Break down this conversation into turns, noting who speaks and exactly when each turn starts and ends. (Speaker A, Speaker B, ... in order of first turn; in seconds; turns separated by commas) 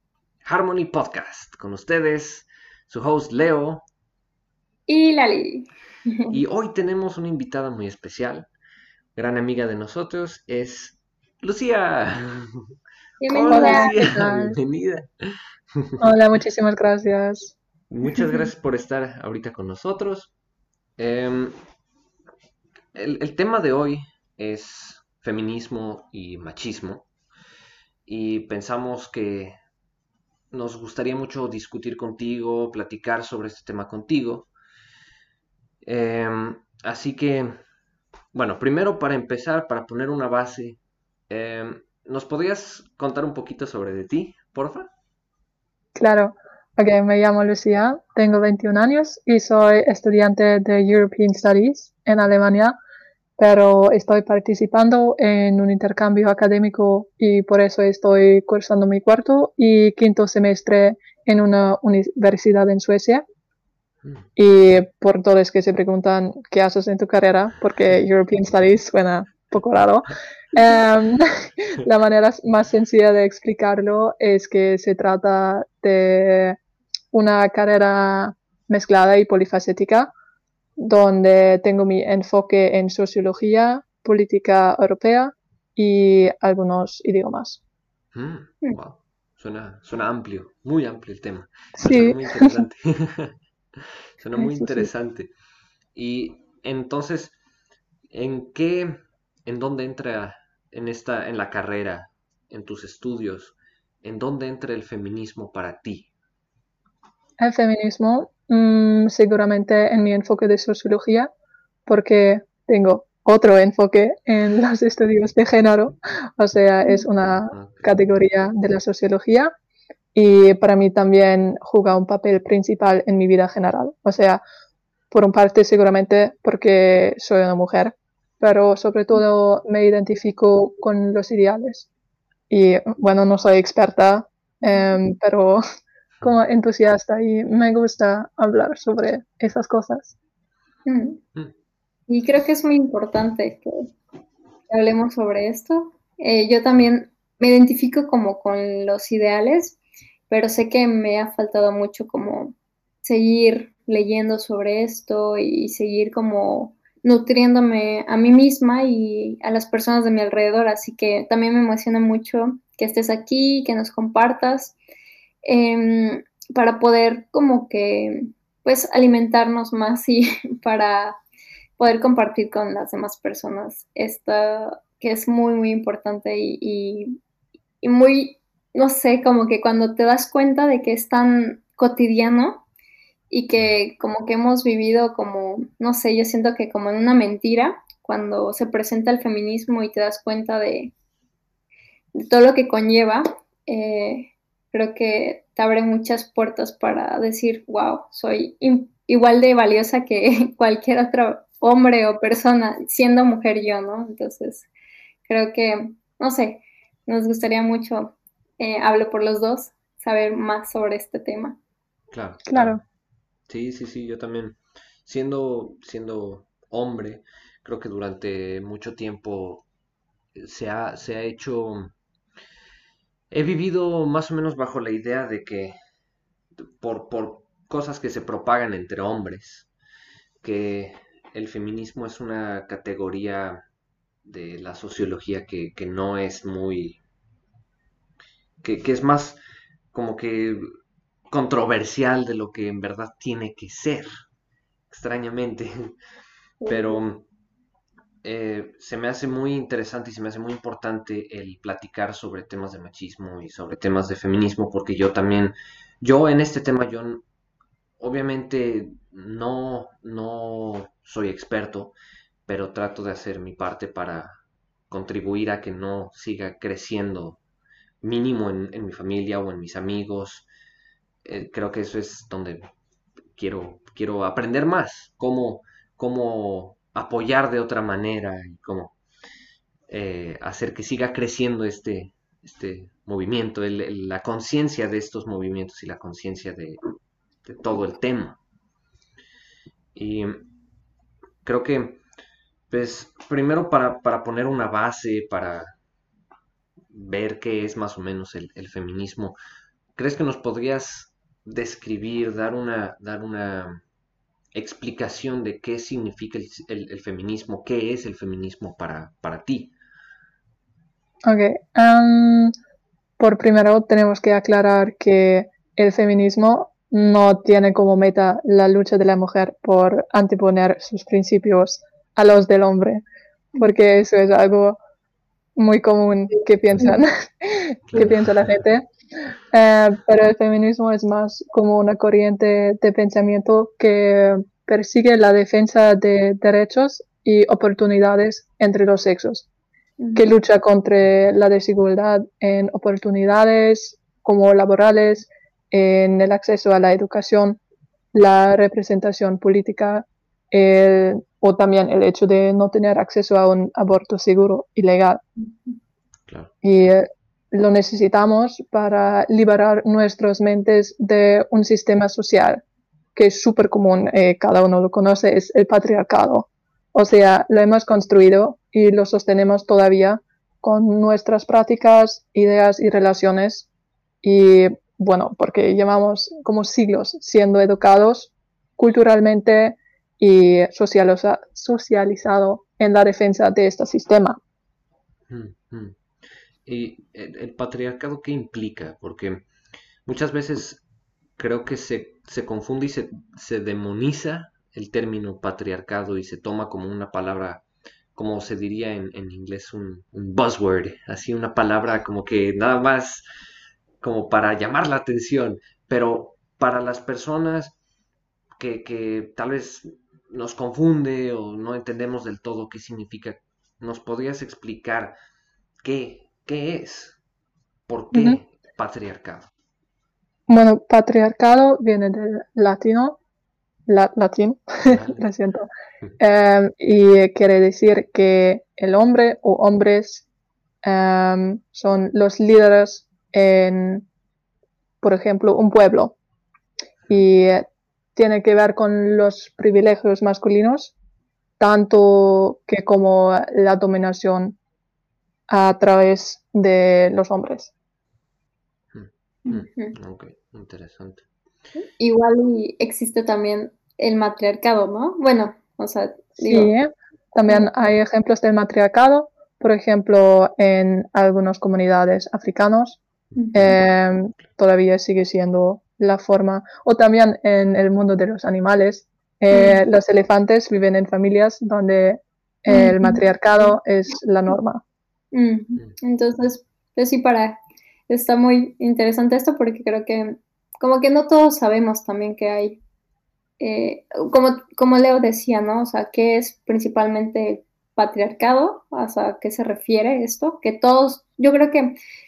Speaker A: 0.5-3.9, Speaker B: 4.9-6.4, Speaker A: 6.3-8.5, Speaker A: 9.2-12.5, Speaker B: 13.2-14.0, Speaker A: 13.3-15.1, Speaker C: 13.5-14.6, Speaker A: 15.8-16.1, Speaker C: 16.0-17.6, Speaker A: 17.9-20.3, Speaker A: 21.0-21.6, Speaker A: 22.9-27.1, Speaker A: 28.1-29.6, Speaker A: 30.5-34.5, Speaker A: 35.8-37.5, Speaker A: 38.3-44.9, Speaker C: 46.0-52.8, Speaker C: 53.4-63.2, Speaker C: 64.4-76.6, Speaker C: 77.1-80.1, Speaker C: 80.8-87.6, Speaker A: 88.1-93.3, Speaker C: 91.8-92.7, Speaker A: 94.2-95.3, Speaker C: 94.4-94.9, Speaker A: 96.0-97.4, Speaker A: 98.1-106.1, Speaker C: 107.4-111.3, Speaker C: 111.9-119.5, Speaker A: 117.2-118.2, Speaker C: 120.2-124.4, Speaker C: 125.1-131.9, Speaker C: 132.5-135.6, Speaker B: 134.6-134.9, Speaker C: 136.2-140.2, Speaker B: 140.9-141.2, Speaker B: 142.1-143.9, Speaker B: 144.7-149.8, Speaker B: 150.3-164.8, Speaker B: 165.4-171.2, Speaker B: 171.8-177.2, Speaker B: 177.8-182.7, Speaker B: 183.3-190.9, Speaker B: 192.2-204.7, Speaker B: 205.3-211.6, Speaker A: 212.1-212.8, Speaker C: 212.5-212.8, Speaker A: 213.5-219.7, Speaker A: 220.4-221.9, Speaker A: 223.3-225.8, Speaker A: 226.8-229.7, Speaker A: 230.4-233.6, Speaker A: 234.2-237.0, Speaker A: 238.6-239.4, Speaker A: 239.9-240.7, Speaker A: 241.3-244.1, Speaker A: 244.9-245.9, Speaker B: 246.6-247.0, Speaker A: 246.7-247.2, Speaker A: 248.2-257.2, Speaker A: 258.0-261.9, Speaker A: 262.5-264.4, Speaker A: 264.9-267.4, Speaker A: 268.0-270.5, Speaker A: 271.2-272.7, Speaker A: 273.4-279.0, Speaker A: 279.9-286.8, Speaker A: 287.4-288.4, Speaker A: 289.9-290.5, Speaker A: 291.4-292.0, Speaker A: 292.7-295.8, Speaker A: 296.9-299.4, Speaker A: 300.0-303.8, Speaker A: 304.5-309.7, Speaker C: 311.3-312.5, Speaker C: 313.2-323.0, Speaker C: 323.6-324.8, Speaker C: 325.6-328.9, Speaker A: 327.9-328.6, Speaker C: 329.5-339.5, Speaker B: 340.0-340.3, Speaker C: 340.1-347.6, Speaker C: 348.1-355.2, Speaker A: 356.3-356.5, Speaker C: 356.6-362.6, Speaker C: 363.1-373.7, Speaker C: 374.2-384.4, Speaker A: 385.3-386.0, Speaker A: 386.7-389.4, Speaker A: 390.1-390.8, Speaker A: 391.4-397.6, Speaker A: 398.1-403.2, Speaker A: 404.0-407.8, Speaker A: 408.6-415.1, Speaker A: 415.8-417.2, Speaker A: 417.9-419.5, Speaker C: 418.1-418.4, Speaker C: 420.5-423.2, Speaker C: 423.9-430.2, Speaker A: 424.9-425.2, Speaker C: 430.8-434.1, Speaker C: 435.0-436.2, Speaker C: 437.1-440.9, Speaker C: 441.6-444.6, Speaker C: 445.5-447.7, Speaker A: 448.9-451.2, Speaker B: 449.5-449.9, Speaker B: 452.0-456.7, Speaker C: 456.4-463.0, Speaker C: 463.5-474.8, Speaker B: 469.5-469.8, Speaker B: 472.7-473.2, Speaker B: 475.3-482.8, Speaker B: 483.6-492.0